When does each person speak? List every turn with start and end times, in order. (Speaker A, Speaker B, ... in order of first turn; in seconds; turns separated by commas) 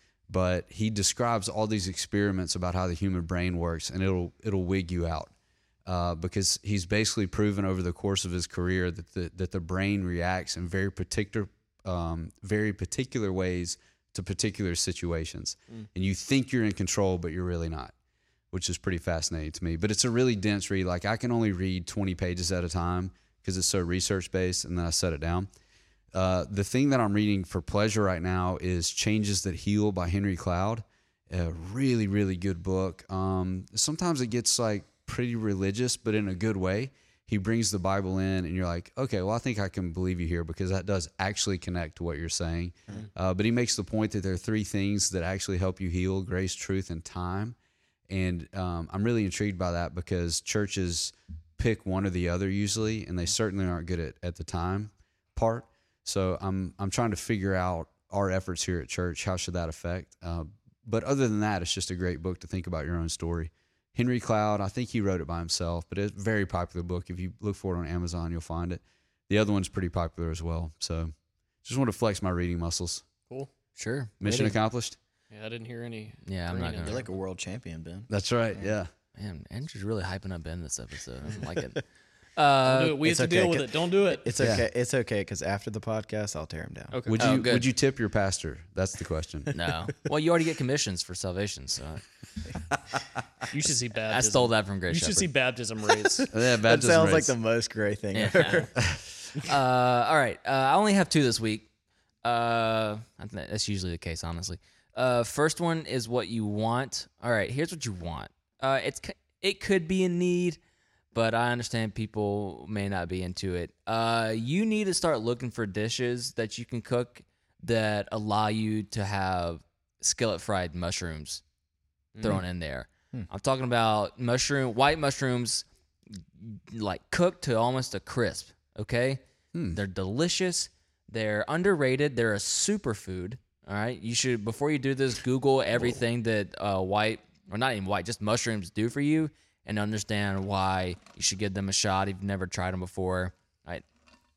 Speaker A: 0.3-5.3, Speaker A: 5.8-17.9, Speaker A: 18.5-25.5, Speaker A: 26.1-47.5, Speaker A: 48.1-71.1, Speaker A: 71.6-73.0, Speaker B: 73.8-74.5, Speaker A: 74.2-75.0, Speaker C: 75.3-77.1, Speaker B: 76.2-77.0, Speaker D: 76.8-78.8, Speaker A: 78.1-78.9, Speaker B: 79.2-81.8, Speaker B: 82.3-83.0, Speaker C: 82.6-84.3, Speaker D: 83.0-87.4, Speaker A: 84.4-84.6, Speaker C: 86.9-87.3, Speaker A: 87.1-89.5, Speaker B: 87.2-87.7, Speaker B: 89.5-92.0, Speaker C: 93.5-96.3, Speaker B: 94.0-95.3, Speaker D: 96.0-99.4, Speaker A: 96.3-97.3, Speaker B: 98.1-98.7, Speaker B: 99.4-101.7, Speaker B: 102.2-110.6, Speaker B: 111.1-121.4, Speaker C: 122.1-122.4, Speaker B: 122.2-125.7, Speaker B: 126.4-143.8, Speaker A: 129.5-129.8